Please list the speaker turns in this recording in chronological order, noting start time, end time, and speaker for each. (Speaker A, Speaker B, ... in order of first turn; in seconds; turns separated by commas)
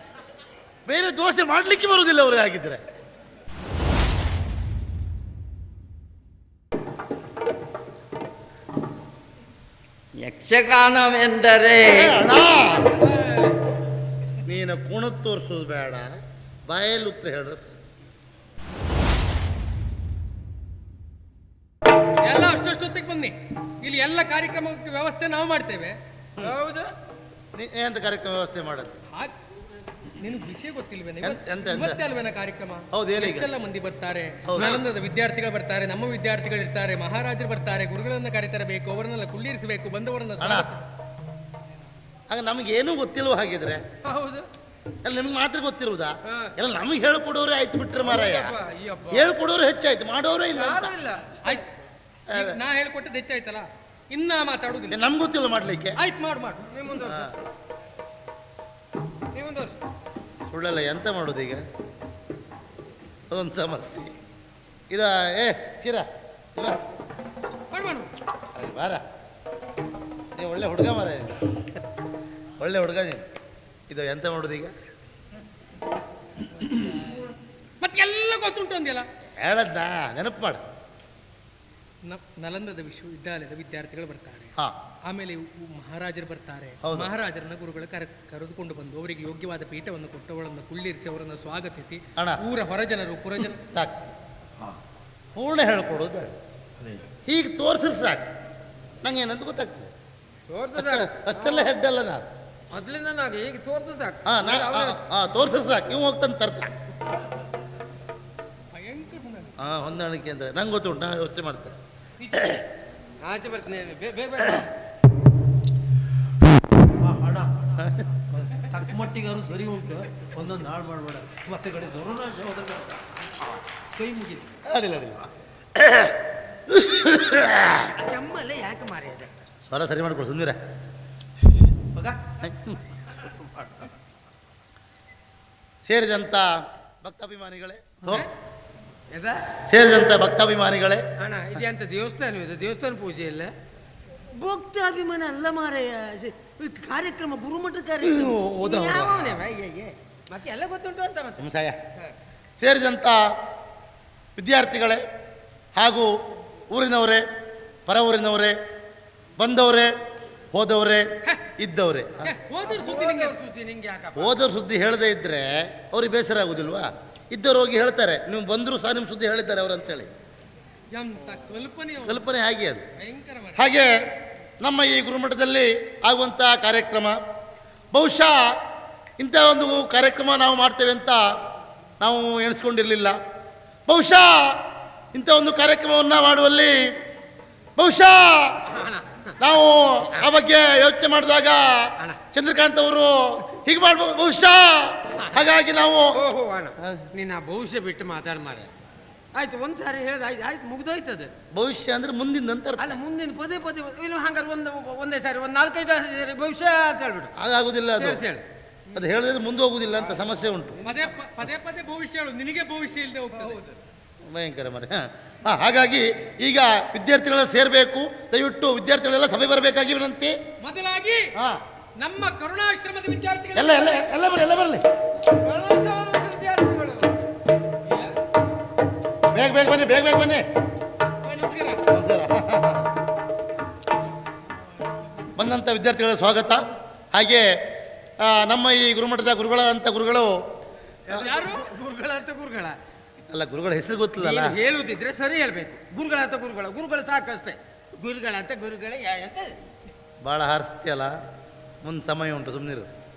Speaker A: 0.9-2.8, Speaker B: 10.2-12.3, Speaker A: 11.8-12.9, Speaker C: 13.1-13.5, Speaker A: 14.4-16.1, Speaker A: 16.7-17.8, Speaker C: 22.2-25.9, Speaker D: 26.4-26.9, Speaker A: 27.5-28.9, Speaker C: 30.2-40.8, Speaker A: 31.2-32.0, Speaker A: 32.9-33.5, Speaker A: 34.5-34.8, Speaker A: 40.4-40.7, Speaker A: 42.3-43.8, Speaker D: 44.0-44.5, Speaker A: 45.0-48.5, Speaker D: 48.0-49.3, Speaker A: 49.1-50.9, Speaker D: 50.5-51.6, Speaker A: 52.3-52.6, Speaker C: 52.3-55.0, Speaker A: 54.9-56.0, Speaker C: 56.0-56.6, Speaker D: 56.6-57.3, Speaker A: 57.0-57.3, Speaker D: 59.3-59.7, Speaker A: 60.5-61.6, Speaker A: 63.3-64.1, Speaker A: 64.9-66.8, Speaker C: 67.7-68.1, Speaker A: 68.5-69.0, Speaker A: 70.4-71.4, Speaker A: 72.6-73.2, Speaker A: 73.9-74.7, Speaker C: 77.8-79.1, Speaker A: 79.4-80.6, Speaker C: 82.0-84.5, Speaker C: 85.1-93.6, Speaker A: 86.8-87.1, Speaker A: 93.6-93.9, Speaker A: 95.3-96.3, Speaker A: 97.2-98.2, Speaker A: 99.0-99.9, Speaker D: 100.5-101.7, Speaker A: 100.7-102.2, Speaker D: 102.7-105.0, Speaker A: 104.2-106.7, Speaker C: 108.7-109.5, Speaker A: 109.6-111.7, Speaker C: 112.2-112.6, Speaker D: 113.2-114.7, Speaker E: 117.0-122.9, Speaker E: 124.0-124.4, Speaker A: 124.6-127.9, Speaker D: 127.9-129.3, Speaker A: 129.7-130.6, Speaker A: 132.4-132.8, Speaker A: 135.8-138.3, Speaker D: 139.1-139.4, Speaker A: 139.7-141.0, Speaker D: 141.2-143.5, Speaker D: 144.3-151.4, Speaker A: 148.0-149.4, Speaker A: 151.4-151.8, Speaker A: 152.6-153.2, Speaker A: 154.3-155.0, Speaker A: 155.8-156.1, Speaker A: 156.7-157.2, Speaker A: 157.8-158.5, Speaker A: 159.4-159.9, Speaker A: 160.5-161.0, Speaker A: 161.6-162.3, Speaker C: 162.2-163.4, Speaker D: 162.5-164.4, Speaker A: 164.2-170.1, Speaker C: 170.9-172.2, Speaker A: 172.1-172.8, Speaker C: 173.0-173.7, Speaker A: 173.6-173.9, Speaker A: 174.6-177.2, Speaker A: 177.9-178.5, Speaker A: 179.2-181.2, Speaker A: 182.0-183.1, Speaker A: 183.9-184.5, Speaker A: 185.1-186.8, Speaker A: 187.8-188.5, Speaker D: 188.7-189.3, Speaker A: 189.4-196.2, Speaker D: 195.1-195.4, Speaker D: 196.1-198.7, Speaker D: 199.3-201.3, Speaker A: 201.5-202.9, Speaker D: 202.8-207.3, Speaker A: 207.4-208.2, Speaker D: 208.0-209.0, Speaker A: 208.9-210.7, Speaker D: 209.9-210.3, Speaker C: 210.8-213.7, Speaker A: 214.2-220.3, Speaker C: 220.6-221.3, Speaker C: 222.0-223.9, Speaker A: 223.5-224.8, Speaker D: 225.3-227.1, Speaker C: 227.9-228.1, Speaker A: 229.3-230.4, Speaker C: 231.2-231.8, Speaker A: 231.9-232.9, Speaker A: 235.3-237.5, Speaker A: 238.2-240.3, Speaker D: 241.1-242.8, Speaker C: 241.2-241.6, Speaker A: 243.3-244.5, Speaker D: 244.2-249.6, Speaker A: 250.2-251.1, Speaker A: 251.8-252.9